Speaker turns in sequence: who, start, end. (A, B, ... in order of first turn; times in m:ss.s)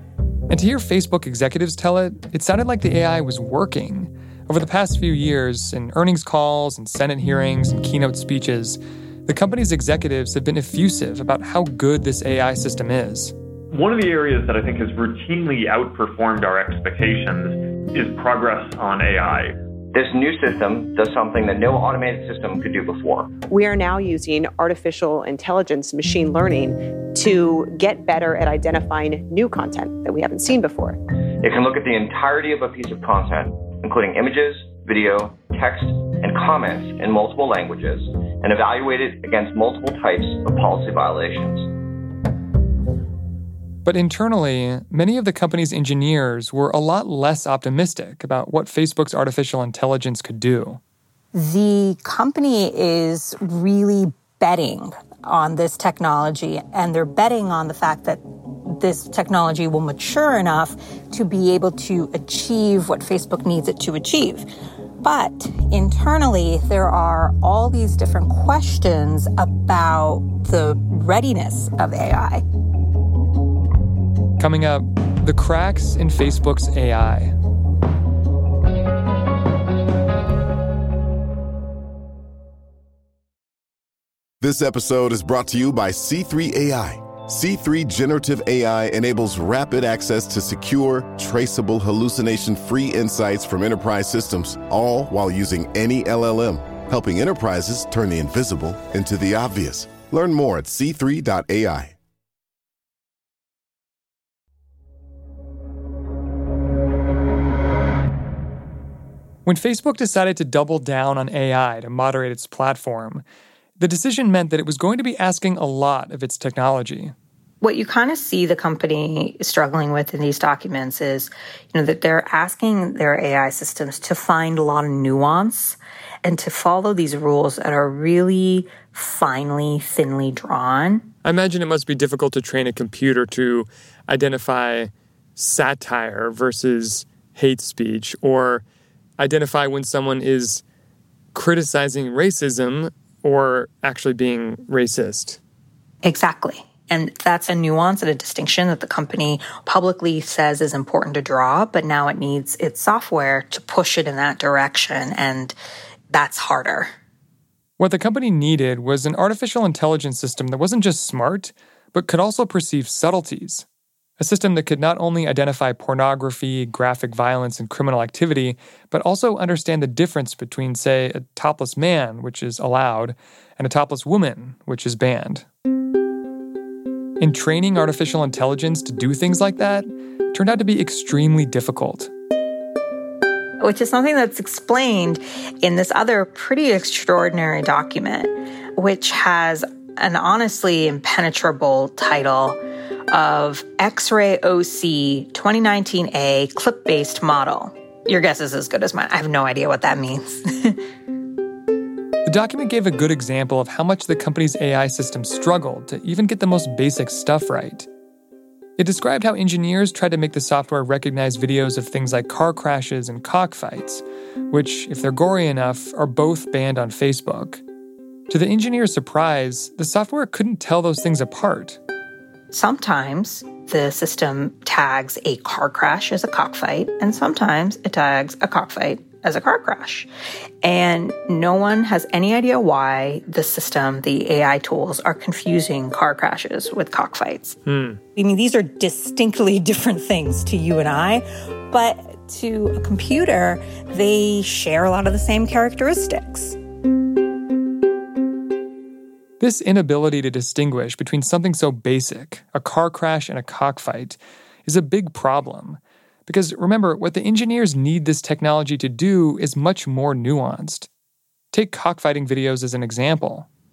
0:00.5-0:13.3 A
0:13.7-0:19.5 B
0:19.9-0:23.3 C
0:23.4-0:31.0 D
0:31.4-0:41.6 C
0:43.8-0:50.8 A
0:51.3-1:04.4 E
1:05.0-1:12.4 E
1:14.4-1:17.3 A
1:24.4-1:41.9 F
1:49.4-1:53.2 A
1:53.8-1:57.1 A
1:57.6-2:11.0 E
2:11.2-2:18.6 A
2:19.2-2:20.6 A
2:21.3-2:25.4 A
2:26.0-2:35.5 E
2:36.1-2:36.9 E
2:37.8-2:43.6 A
2:44.2-2:55.4 A
2:57.2-3:02.1 A
3:03.6-3:20.8 E
3:22.2-3:27.9 A
3:28.8-3:37.6 A
3:38.3-3:41.8 A
3:42.5-3:50.1 E
3:50.6-3:57.6 E
3:57.7-3:58.0 A
3:58.2-4:06.6 E
4:09.4-4:20.9 A
4:21.5-4:23.4 A